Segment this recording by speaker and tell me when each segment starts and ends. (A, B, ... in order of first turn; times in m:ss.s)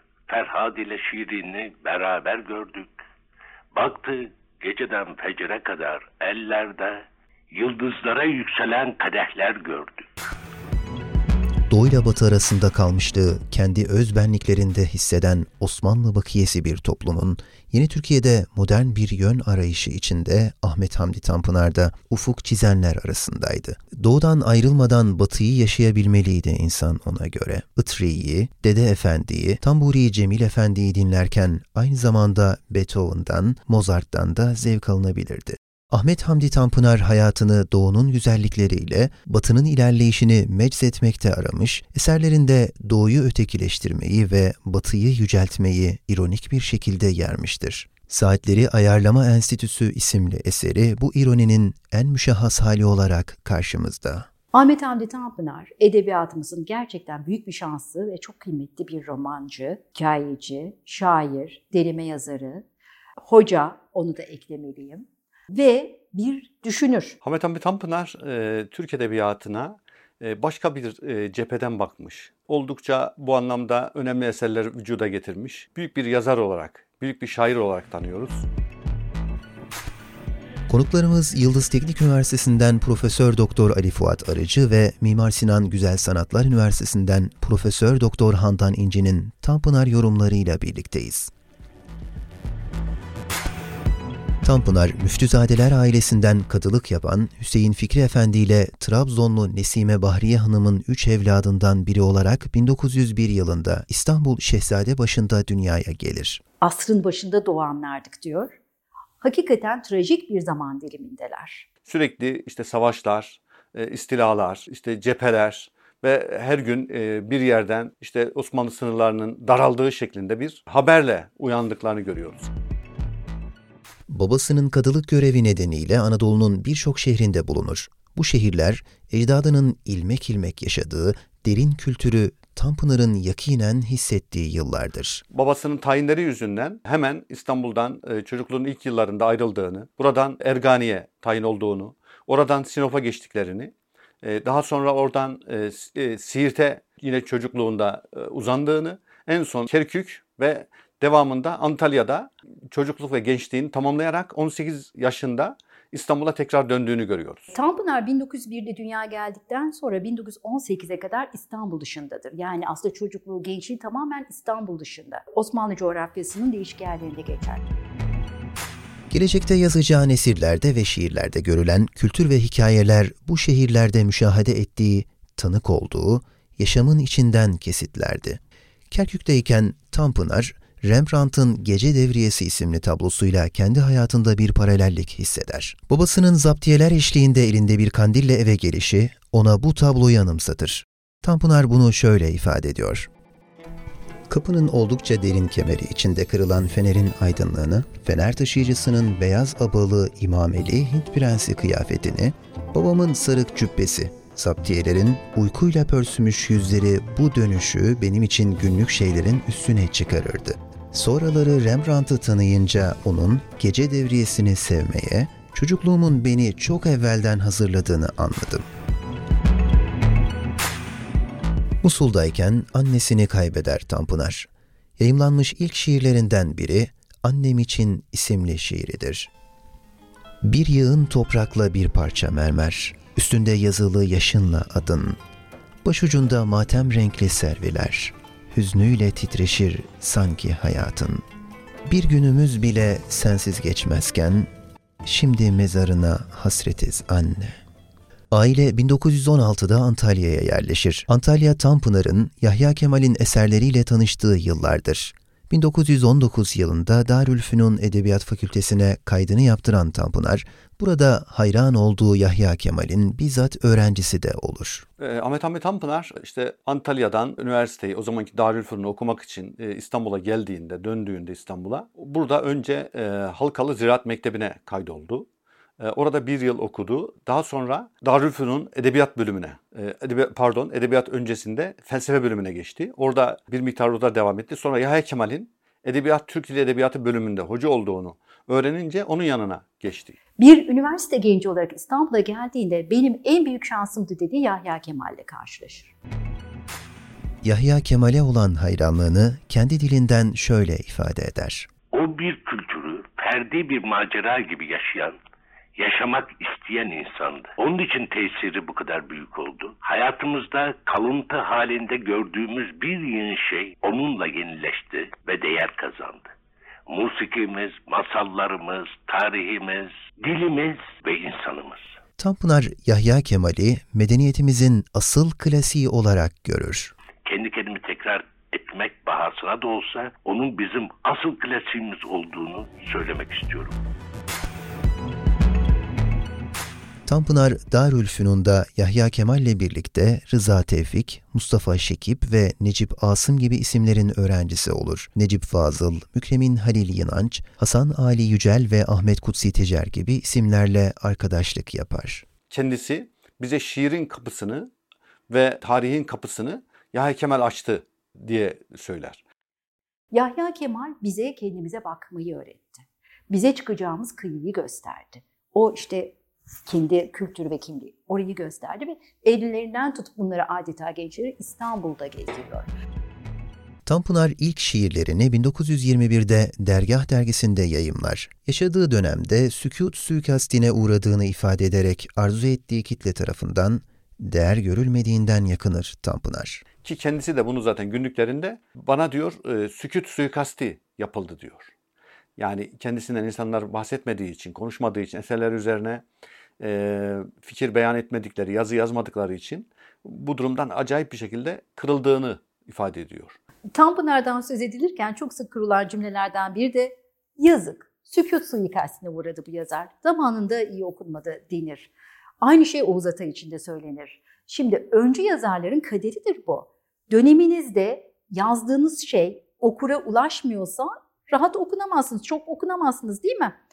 0:00.3-0:02.9 A
0:03.7-0:10.0 A
0:11.7-0:54.3 B
0:54.5-1:02.6 C
1:03.2-1:07.2 C
1:07.2-1:18.4 D
1:20.7-1:31.3 B
1:34.4-1:46.4 B
1:46.6-1:48.6 C
1:49.2-1:51.6 C
1:51.8-2:02.5 D
2:04.1-2:15.2 B
2:15.3-2:37.5 D
2:37.5-2:47.7 C
2:49.1-2:58.4 B
2:58.9-3:13.1 B
3:14.3-3:38.7 B
3:41.8-3:49.3 B
3:50.4-3:55.2 B
3:55.8-4:01.2 B
4:01.8-4:04.5 B
4:05.0-4:07.6 B
4:08.3-4:24.8 B
4:25.0-4:35.3 D
4:35.8-4:50.2 D
4:50.4-4:55.9 C
4:57.4-5:01.7 B
5:01.9-5:05.2 A
5:05.8-5:16.2 A
5:16.9-5:21.8 A
5:22.2-5:26.9 B
5:27.2-5:33.8 A
5:37.1-5:52.2 B
5:52.5-5:54.7 D
5:55.3-5:59.2 D
6:00.1-6:12.7 C
6:13.8-6:26.6 B
6:26.8-6:31.7 D
6:32.4-6:36.0 D
6:36.6-6:43.4 D
6:43.7-7:03.6 C